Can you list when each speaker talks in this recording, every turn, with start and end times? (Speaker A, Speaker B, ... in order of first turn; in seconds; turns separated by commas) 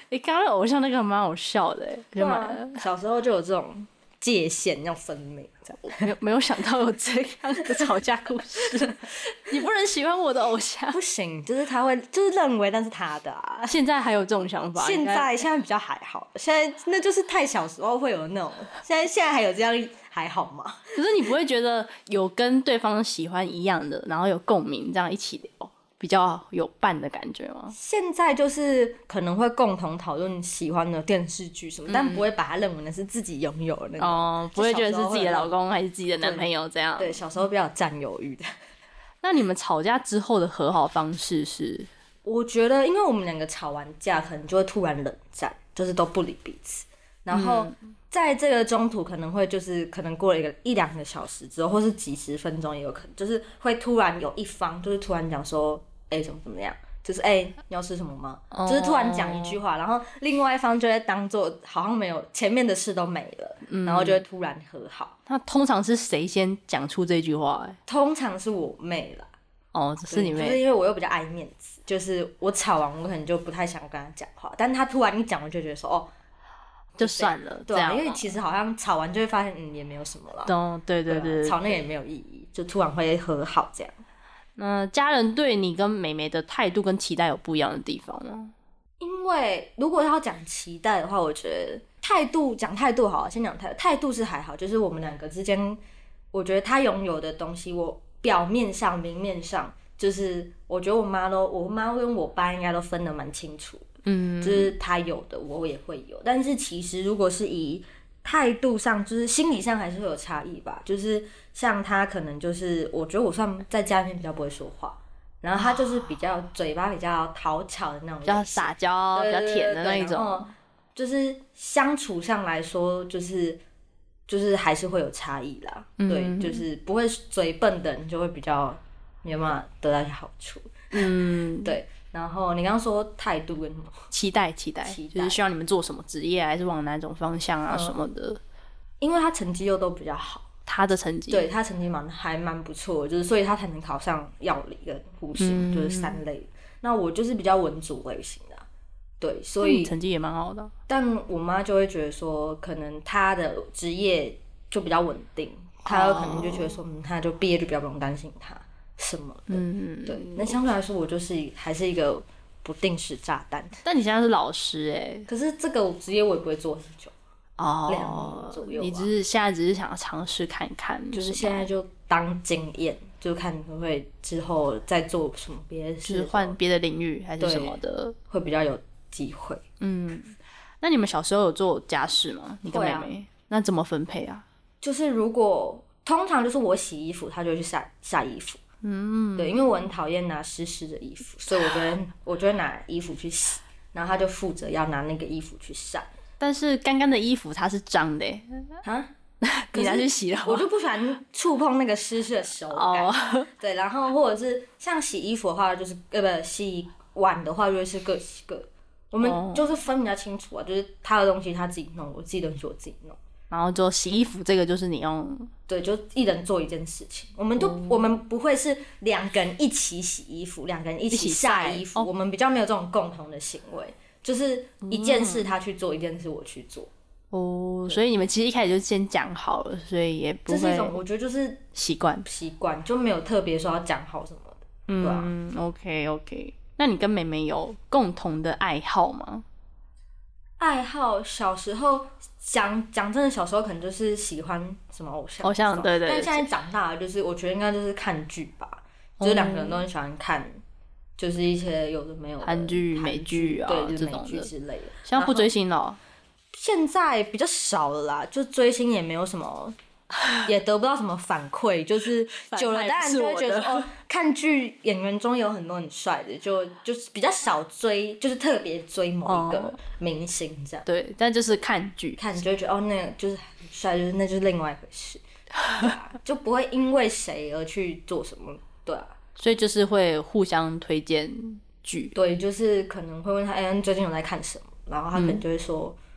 Speaker A: 0.1-2.8, Speaker B: 2.2-6.0, Speaker A: 5.8-11.0, Speaker B: 10.9-13.7, Speaker A: 13.6-15.3, Speaker B: 14.8-20.9, Speaker A: 20.9-27.7, Speaker B: 27.7-35.5, Speaker A: 31.9-32.3, Speaker A: 34.0-37.2, Speaker B: 36.2-38.5, Speaker A: 39.2-41.9, Speaker B: 42.2-65.2, Speaker A: 47.3-47.7, Speaker A: 58.5-59.6, Speaker A: 63.7-64.2, Speaker A: 65.3-67.8, Speaker B: 67.9-69.3, Speaker A: 69.7-70.6, Speaker B: 70.1-76.1, Speaker A: 77.0-78.3, Speaker B: 77.0-80.5, Speaker A: 80.5-81.8, Speaker B: 81.1-84.0, Speaker A: 84.6-88.5, Speaker B: 89.0-95.8, Speaker B: 96.3-103.9, Speaker A: 104.0-104.8, Speaker B: 104.4-123.6, Speaker A: 115.6-116.1, Speaker A: 118.2-120.5, Speaker B: 124.3-134.1, Speaker A: 126.0-126.6, Speaker A: 130.9-131.8, Speaker A: 134.1-138.4, Speaker B: 134.8-135.4, Speaker B: 137.7-138.0, Speaker B: 139.0-140.5, Speaker A: 140.7-141.5, Speaker B: 141.3-148.7, Speaker A: 145.4-146.2, Speaker B: 149.2-149.9, Speaker A: 149.6-150.7, Speaker B: 150.9-163.8, Speaker A: 155.8-156.7, Speaker A: 159.5-160.6, Speaker A: 163.8-165.3, Speaker B: 165.3-167.1, Speaker A: 167.6-171.7, Speaker B: 167.9-169.1, Speaker B: 171.1-176.6, Speaker A: 176.0-178.2, Speaker B: 177.4-179.6, Speaker A: 179.8-184.4, Speaker B: 182.7-183.1, Speaker B: 184.8-188.6, Speaker A: 188.8-189.7, Speaker B: 189.4-196.1, Speaker A: 196.4-198.7, Speaker B: 198.8-199.1, Speaker A: 199.4-200.7, Speaker B: 199.7-213.2, Speaker A: 202.7-203.5, Speaker A: 209.2-209.7, Speaker A: 213.5-215.5, Speaker B: 215.7-226.9, Speaker A: 217.6-218.1, Speaker A: 221.1-222.1, Speaker A: 224.8-225.5, Speaker A: 227.3-231.0, Speaker B: 230.5-231.6, Speaker A: 231.7-232.2, Speaker B: 232.2-235.3, Speaker A: 234.9-239.4, Speaker B: 240.6-250.6, Speaker A: 245.4-246.5, Speaker A: 249.2-249.8, Speaker B: 251.2-255.5, Speaker A: 252.4-254.5, Speaker A: 255.0-256.0, Speaker B: 256.5-259.8, Speaker B: 260.4-270.9, Speaker A: 262.3-263.9, Speaker A: 269.2-269.8, Speaker A: 270.9-272.2, Speaker B: 272.2-279.1, Speaker A: 275.6-275.9, Speaker A: 279.4-282.1, Speaker B: 282.1-286.0, Speaker A: 285.1-285.4